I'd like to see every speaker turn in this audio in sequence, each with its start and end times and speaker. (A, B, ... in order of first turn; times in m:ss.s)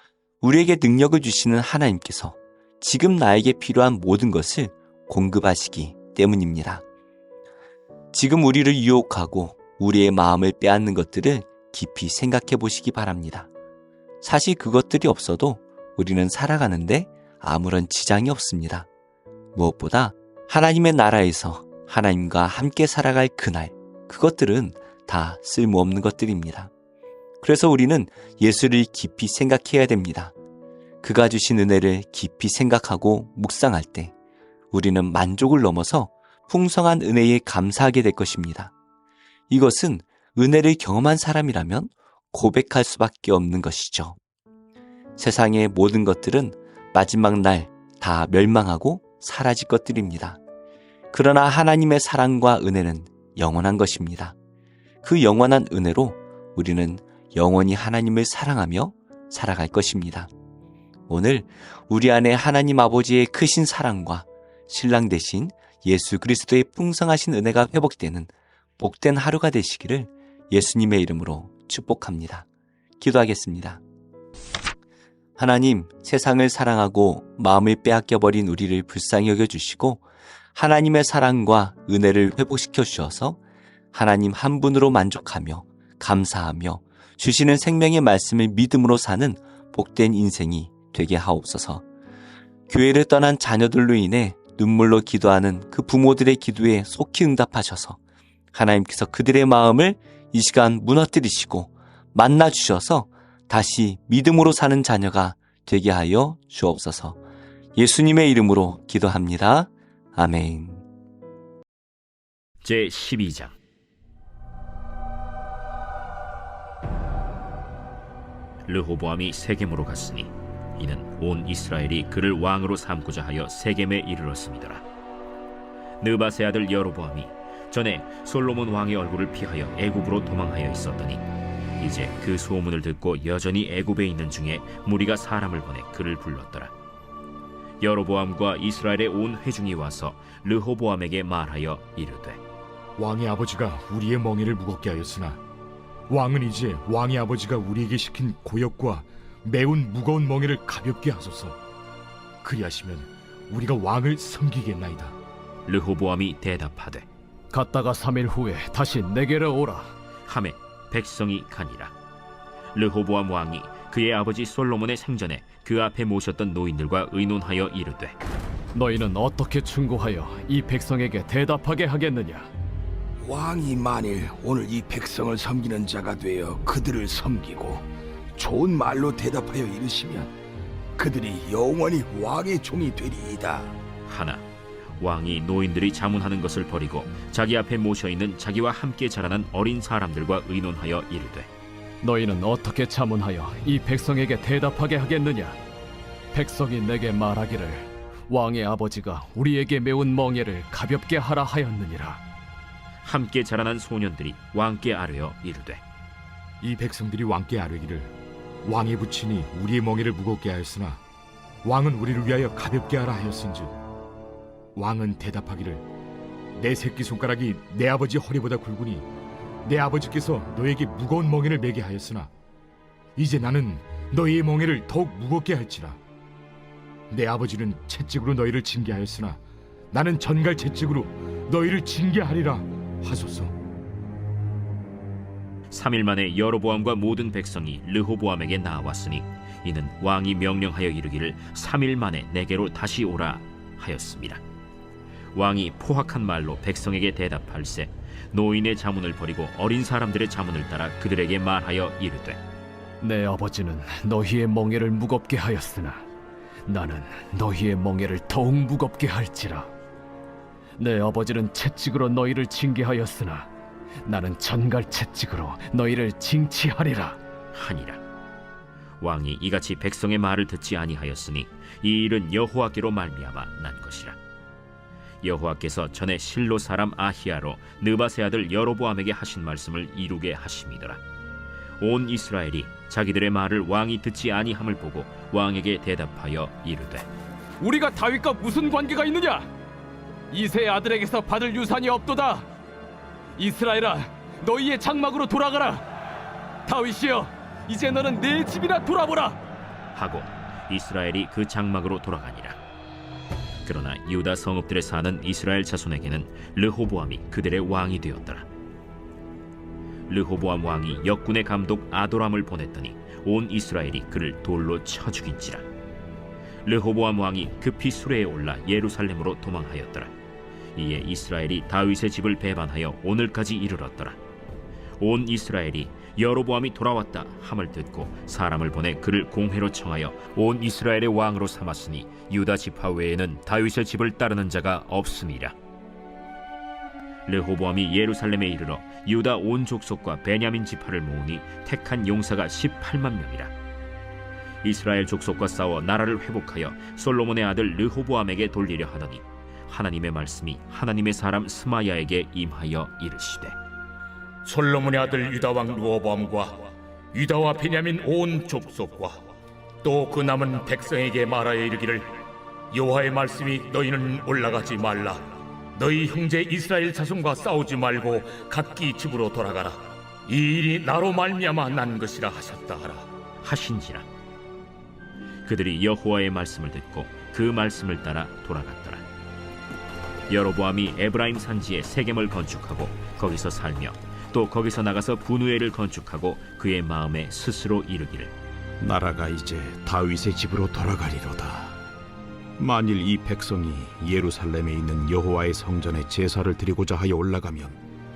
0:00.4-0:06.8 A
0:08.1-0:13.5 A
0:14.2-0:18.9 A
0:19.5-0:26.7 A
0:27.4-0:30.3 A
0:31.0-0:34.1 A
0:34.7-0:38.7 A
0:39.5-0:44.2 A
0:45.2-0:50.4 A
0:51.1-0:54.3 A
0:55.0-1:00.3 A
1:01.1-1:12.4 A
1:13.0-1:13.8 A
1:15.4-1:23.4 A
1:23.9-1:31.8 A
1:32.7-1:38.0 A
1:38.5-1:47.2 A
1:47.7-1:50.8 A
1:52.6-1:53.6 B
1:58.7-2:04.8 B
2:06.0-2:11.2 B
2:11.8-2:16.7 B
2:17.8-2:22.4 B
2:23.0-2:25.4 C
2:26.1-2:31.6 C
2:32.4-2:35.2 C
2:35.6-2:37.1 B
2:37.5-2:39.9 D
2:40.3-2:41.9 B
2:42.7-2:48.2 B
2:48.7-2:52.5 D
2:53.2-3:00.3 E
3:01.0-3:03.8 E
3:04.1-3:04.4 B
3:05.0-3:11.5 B
3:12.0-3:15.6 D
3:16.3-3:22.2 D
3:23.0-3:25.8 B
3:26.6-3:28.1 C
3:28.6-3:31.0 C
3:31.6-3:33.8 C
3:34.7-3:35.8 C
3:36.5-3:39.1 C
3:39.6-3:42.3 C
3:43.2-3:46.0 C
3:47.1-3:49.4 C
3:49.9-3:53.6 C
3:55.7-4:04.4 B
4:05.3-4:12.4 B
4:13.0-4:16.1 D
4:16.6-4:19.7 D
4:20.8-4:23.5 D
4:24.0-4:27.2 D
4:27.5-4:28.0 B
4:29.0-4:34.2 B
4:35.2-4:41.0 B
4:41.8-4:47.1 B
4:47.6-4:49.5 D
4:50.3-4:52.5 D
4:53.4-4:55.8 D
4:56.6-4:59.4 D
4:59.9-5:02.6 B
5:03.6-5:08.4 B
5:10.1-5:15.6 B
5:16.6-5:20.1 B
5:20.7-5:24.2 B
5:25.0-5:35.5 B
5:37.3-5:43.5 B
5:44.6-5:53.6 B
5:54.4-5:59.3 F
5:59.8-6:02.2 F
6:02.7-6:13.0 F
6:13.4-6:14.1 B
6:15.4-6:19.0 B
6:20.3-6:28.3 B
6:28.8-6:31.8 G
6:32.6-6:37.8 G